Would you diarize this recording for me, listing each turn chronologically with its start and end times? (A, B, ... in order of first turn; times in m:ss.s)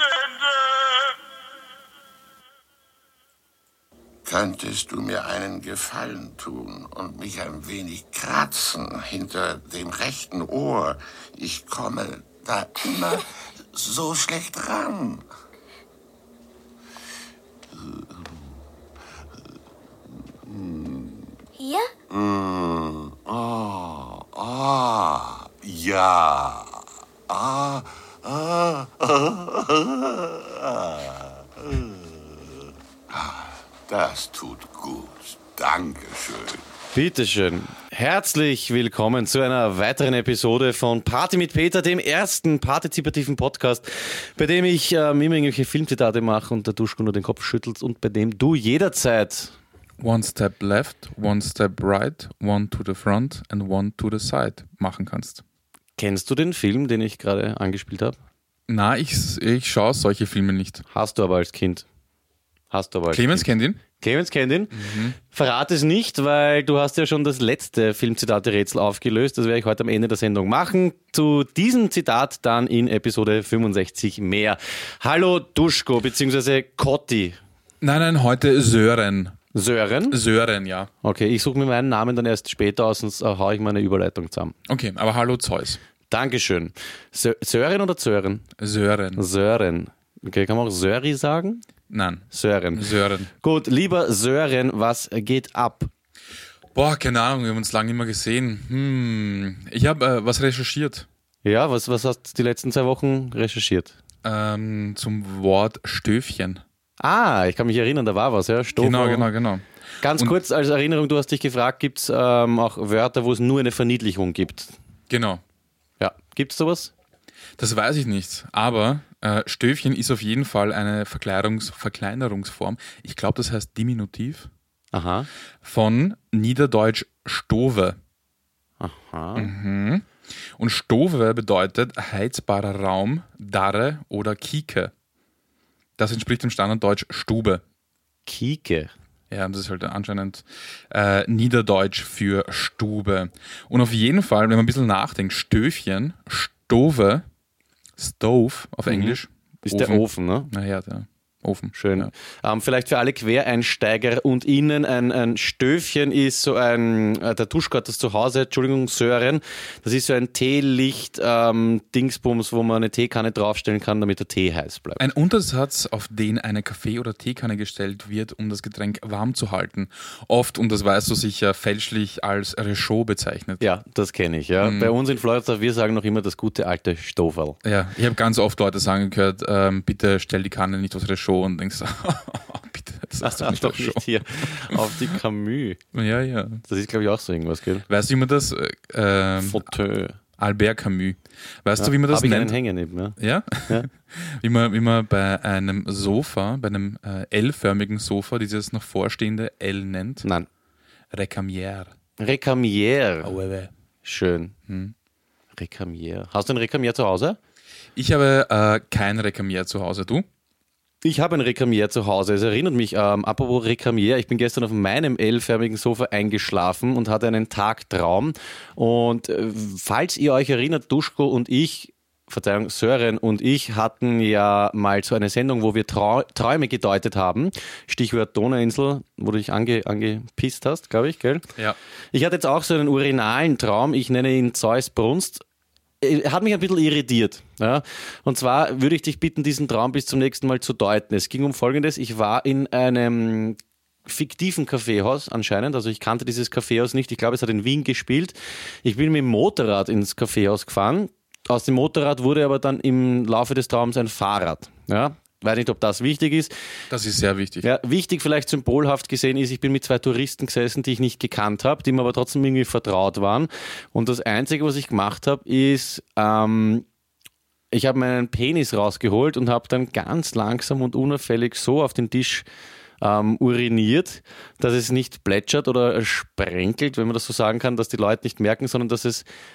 0:04.2-0:15.2 A
0:17.7-0:18.3 A
0:20.4-0:21.2 A
0:22.1-0:32.2 A
0:33.1-0:36.6 A
0:36.9-0:49.5 B
0:50.0-0:55.4 C
0:56.0-0:58.2 B
0:58.7-1:00.8 C
1:00.9-1:01.8 B
1:02.7-1:17.4 B
1:03.1-1:03.8 C
1:04.7-1:05.2 C
1:17.8-1:19.4 C
1:19.5-1:20.2 B
1:20.1-1:20.9 C
1:21.0-1:24.5 B
1:24.7-1:25.8 C
1:26.1-1:28.4 B
1:28.6-1:29.2 C
1:29.2-1:31.6 B
1:31.9-1:33.3 C
1:32.3-1:32.8 B
1:33.4-1:35.9 B
1:36.7-1:41.1 C
1:41.4-1:43.9 B
1:44.2-1:46.6 C
1:47.0-1:49.3 B
1:48.8-1:50.3 C
1:50.0-1:54.7 B
1:55.1-1:55.4 C
1:56.0-1:56.9 B
1:57.6-2:04.5 C
2:04.9-2:05.3 B
2:05.6-2:08.0 C
2:08.8-2:09.5 B
2:09.4-2:14.9 C
2:16.0-2:17.6 C
2:18.2-2:18.9 B
2:19.3-2:27.2 C
2:28.0-2:32.1 C
2:28.9-2:30.5 B
2:31.7-2:45.0 B
2:45.0-2:53.6 C
2:53.6-2:57.6 B
2:54.6-2:54.9 C
2:57.6-3:05.0 C
3:03.2-3:05.8 B
3:05.9-3:06.6 C
3:06.7-3:07.8 B
3:07.9-3:09.7 C
3:09.4-3:10.2 B
3:10.4-3:12.6 C
3:11.8-3:13.2 B
3:13.2-3:20.2 C
3:21.1-3:21.9 C
3:22.2-3:23.3 B
3:23.2-3:23.7 C
3:24.0-3:24.5 B
3:24.7-3:24.9 C
3:25.6-3:27.4 B
3:28.0-3:30.2 C
3:31.0-3:51.5 B
3:52.1-3:55.4 B
3:56.0-4:16.5 B
4:16.9-4:17.7 C
4:17.6-4:26.8 B
4:27.7-4:32.4 B
4:33.0-4:39.2 B